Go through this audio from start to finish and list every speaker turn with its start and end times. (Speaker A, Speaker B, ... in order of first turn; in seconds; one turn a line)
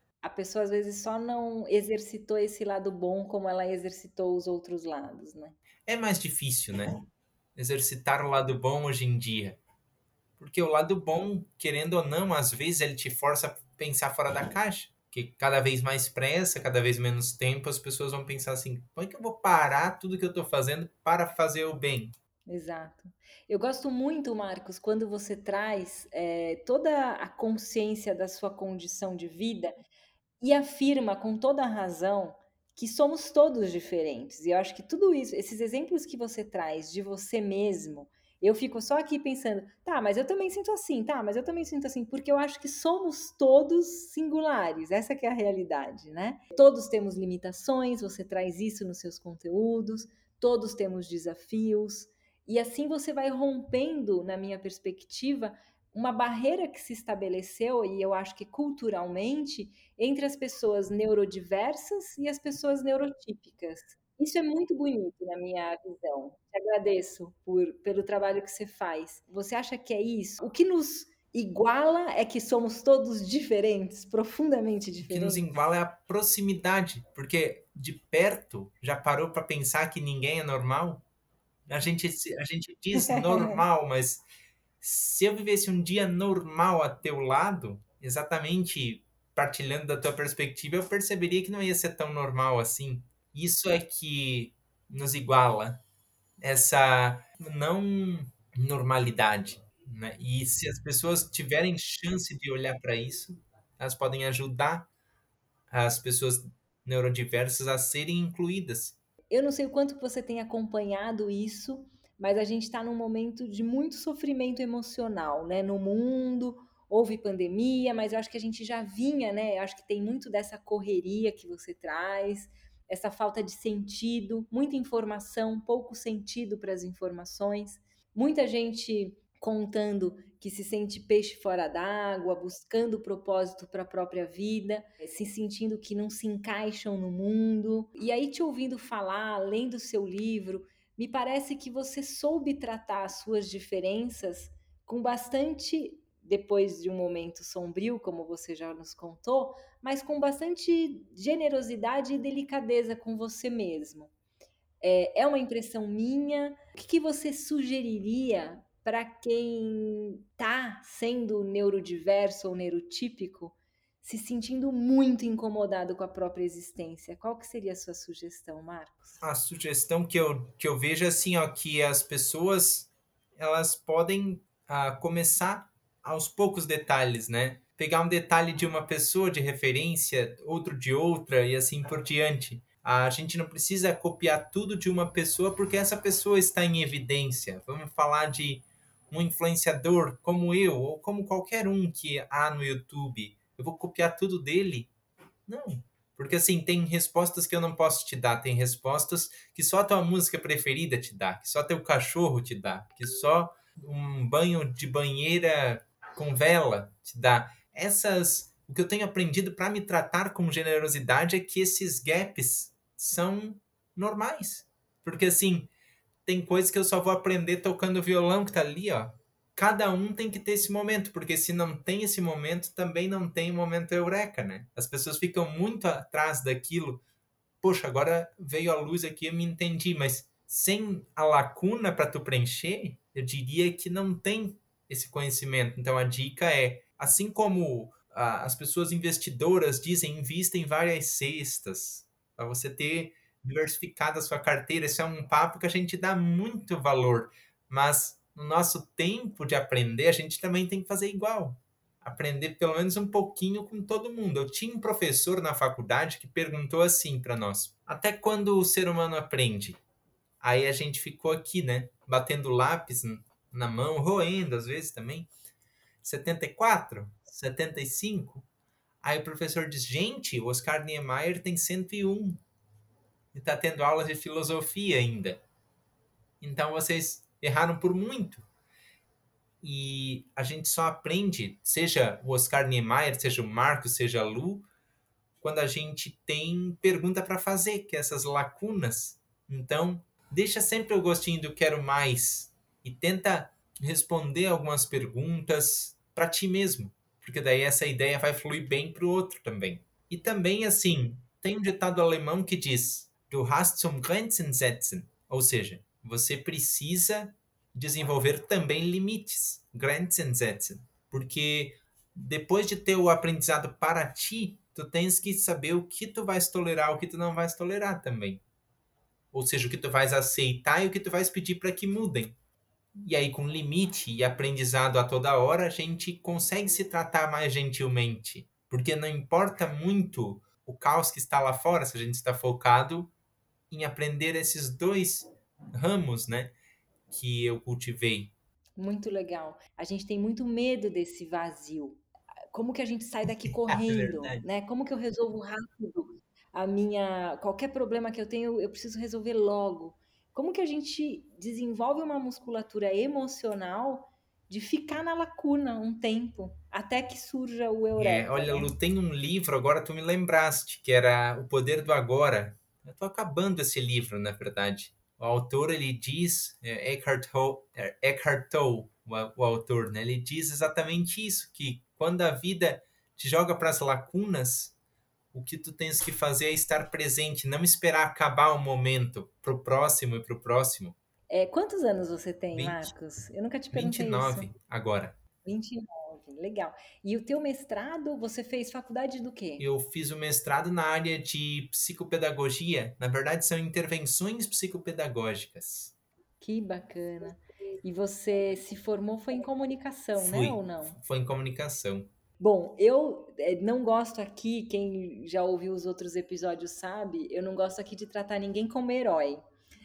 Speaker A: 0.2-5.6
Speaker B: 5.9-6.9
Speaker B: 7.6-9.6
Speaker B: 10.4-22.1
Speaker A: 22.5-29.8
Speaker A: 30.4-75.5
Speaker B: 75.0-81.0
Speaker B: 81.7-84.2
Speaker A: 83.0-83.6
Speaker B: 84.8-95.8
Speaker B: 96.4-104.9
Speaker B: 105.7-109.0
Speaker A: 109.3-154.1
Speaker A: 154.8-169.2
Speaker B: 169.2-194.9
Speaker B: 195.5-215.7
Speaker B: 216.3-227.0
Speaker B: 227.6-259.8
Speaker B: 260.4-265.3
Speaker B: 266.0-268.5
Speaker B: 269.0-272.4
Speaker B: 273.3-275.4
Speaker B: 276.4-278.4
Speaker B: 279.6-284.7
Speaker B: 285.4-318.4
Speaker B: 319.3-322.4
Speaker B: 323.0-333.1
Speaker B: 333.7-336.5
Speaker B: 337.1-338.3
Speaker A: 338.8-342.0
Speaker A: 342.5-358.7
Speaker B: 343.4-344.5
Speaker B: 358.0-374.8
Speaker B: 375.3-381.0
Speaker A: 381.3-384.5
Speaker B: 382.5-382.9
Speaker B: 383.7-385.2
Speaker A: 385.4-389.6
Speaker B: 389.6-395.9
Speaker A: 396.4-401.0
Speaker B: 400.2-402.1
Speaker A: 402.4-409.4